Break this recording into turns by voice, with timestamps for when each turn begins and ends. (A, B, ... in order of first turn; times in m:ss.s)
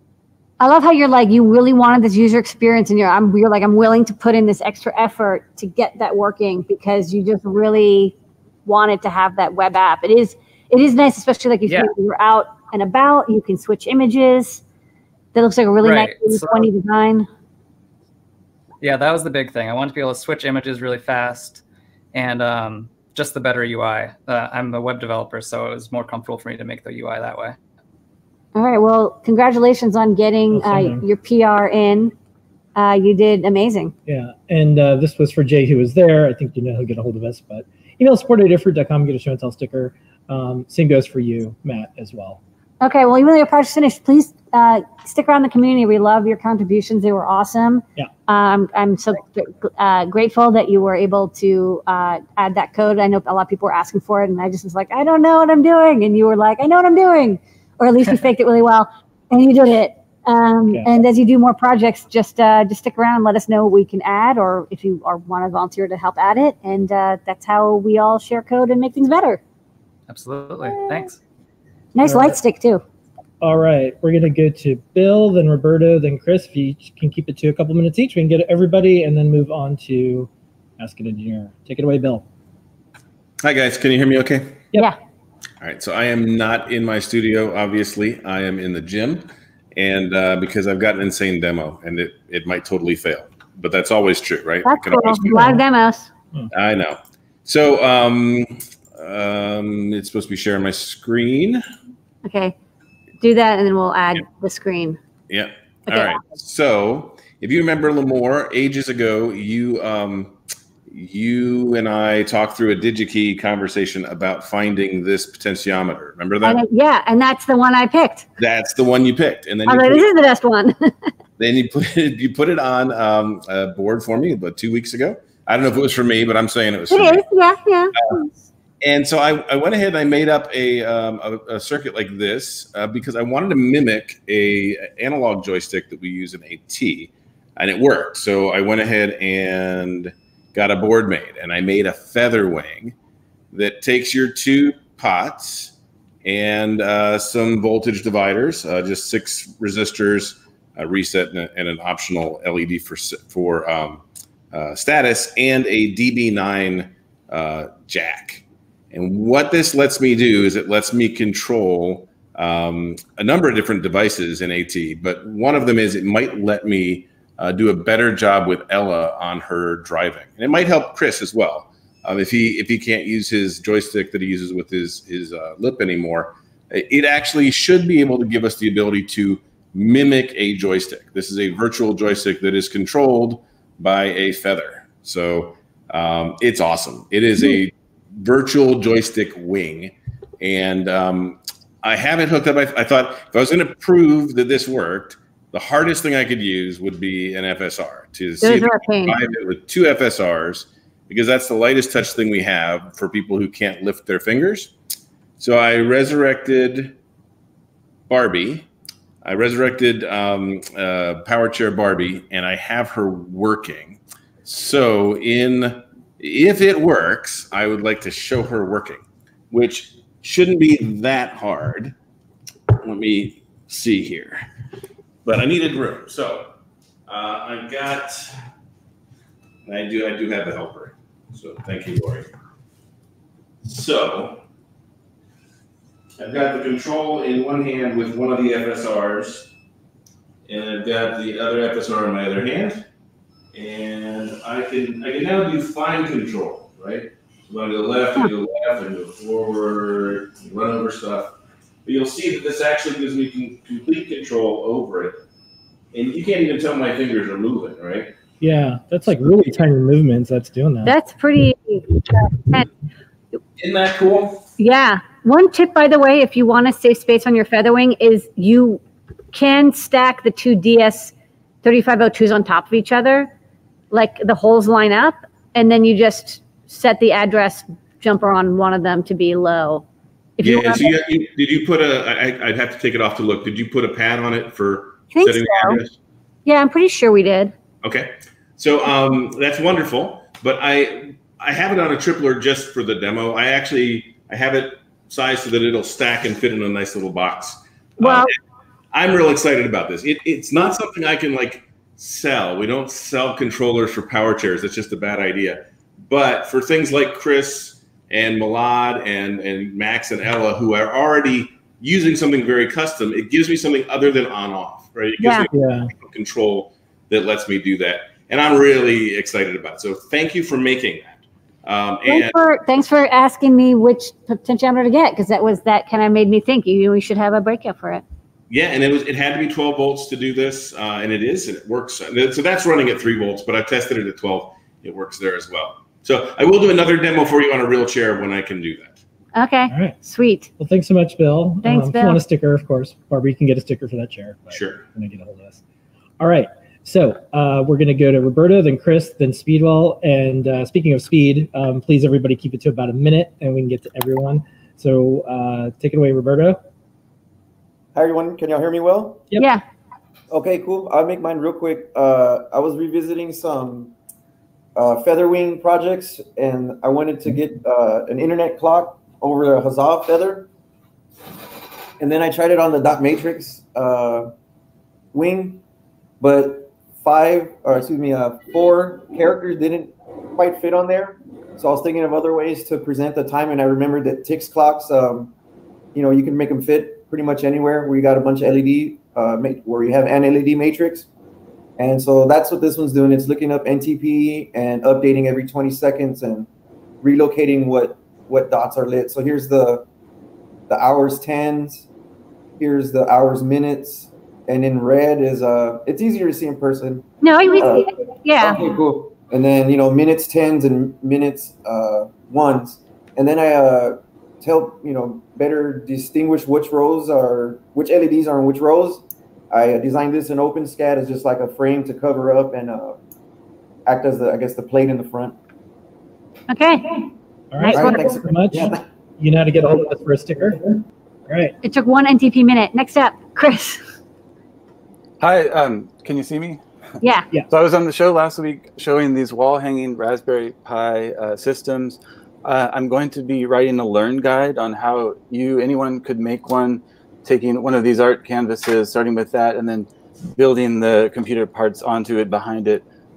0:00.6-0:08.2 A
0:08.7-0:14.6 A
0:15.4-0:17.3 A
0:15.8-0:16.7 B
0:18.8-0:27.6 B
0:28.6-0:32.1 A
0:30.5-0:31.0 C
0:32.8-0:33.9 A
0:34.1-0:42.4 C
0:42.8-1:09.4 A
1:10.1-1:11.2 B
1:10.7-1:11.0 A
1:12.0-1:12.8 A
1:12.0-1:12.4 C
1:13.4-1:22.3 C
1:23.4-1:24.6 D
1:25.6-1:35.3 D
1:34.6-1:36.1 A
1:35.2-1:35.6 C
1:36.5-1:41.6 D
1:42.2-1:42.6 A
1:43.2-1:45.0 A
1:45.3-1:50.4 D
1:45.9-1:46.2 A
1:50.9-1:56.6 D
1:56.4-1:58.3 A
1:58.4-2:00.1 D
1:59.7-2:00.9 A
2:01.4-2:07.2 D
2:06.9-2:08.3 A
2:08.8-2:22.9 D
2:23.5-3:24.7 D
3:18.4-3:19.2 A
3:25.4-3:27.0 D
3:28.1-3:28.7 D
3:29.2-3:42.0 D
3:42.8-3:44.4 D
3:45.2-3:46.5 D
3:47.1-3:48.3 D
3:49.6-3:52.3 D
3:53.6-3:54.4 D
3:56.2-3:59.5 D
4:00.5-4:02.8 D
4:03.5-4:11.3 D
4:11.8-4:15.2 D
4:15.9-4:18.1 D
4:18.4-4:20.9 C
4:20.8-4:22.7 A
4:23.6-4:24.5 D
4:24.6-4:28.8 A
4:29.3-4:33.3 A
4:33.9-4:39.8 A
4:40.4-4:40.9 A
4:40.4-4:45.9 D
4:45.1-4:45.8 A
4:46.5-4:47.5 A
4:47.8-4:58.3 D
4:58.0-4:58.3 A
4:58.9-5:22.4 D
5:15.2-5:15.5 A
5:15.5-5:15.9 C
5:22.1-5:28.0 A
5:28.5-5:39.0 D
5:39.3-5:40.5 A
5:39.7-5:40.0 C
5:40.6-5:45.6 C
5:41.6-5:42.2 A
5:44.5-5:44.8 D
5:46.2-5:56.6 C
5:57.9-5:59.2 E
5:59.4-5:59.6 A
6:00.3-6:03.9 E
6:04.8-6:10.5 E
6:12.0-6:14.3 E
6:15.1-6:15.6 E
6:16.2-6:25.3 E
6:25.9-6:31.1 E
6:31.8-6:36.5 E
6:37.0-6:39.9 E
6:40.7-6:41.9 E
6:42.6-7:03.0 E
6:47.2-6:48.6 A
7:03.9-7:05.4 E
7:06.5-7:07.0 A
7:07.5-7:10.7 C
7:07.6-7:08.0 A
7:07.7-7:08.8 E
7:11.3-7:11.5 C
7:11.6-7:13.8 A
7:15.2-7:16.6 F
7:17.0-7:17.3 A
7:17.5-7:32.8 F